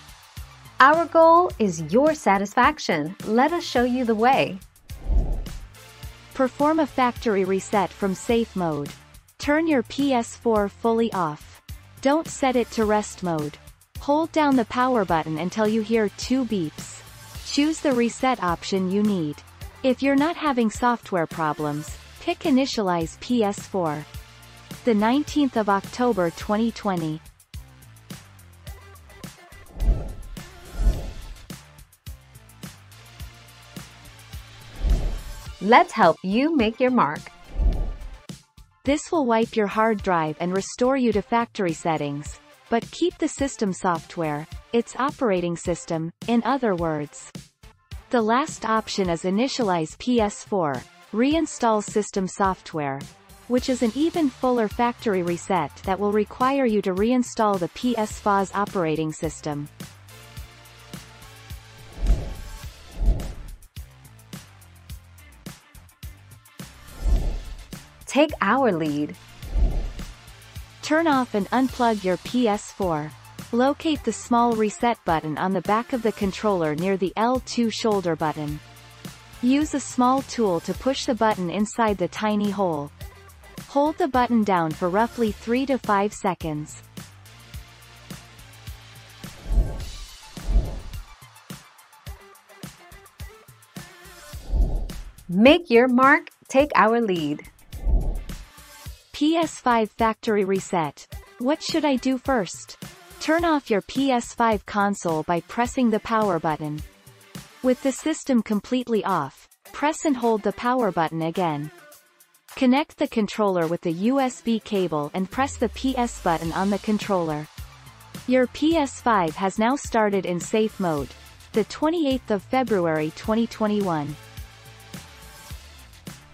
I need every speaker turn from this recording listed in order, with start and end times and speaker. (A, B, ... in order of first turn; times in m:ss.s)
0:00.8-0:04.6 A
0:06.3-0:24.1 B
0:24.8-0:27.2 B
0:35.6-0:37.3 A
0:38.8-0:47.3 B
0:48.1-0:59.7 B
1:08.1-1:09.2 A
1:10.8-1:18.6 B
1:19.4-1:22.9 B
1:23.7-1:26.8 B
1:35.3-1:37.5 A
1:39.1-1:46.8 B
1:47.6-1:51.7 B
1:52.5-1:57.5 B
1:58.3-2:04.2 B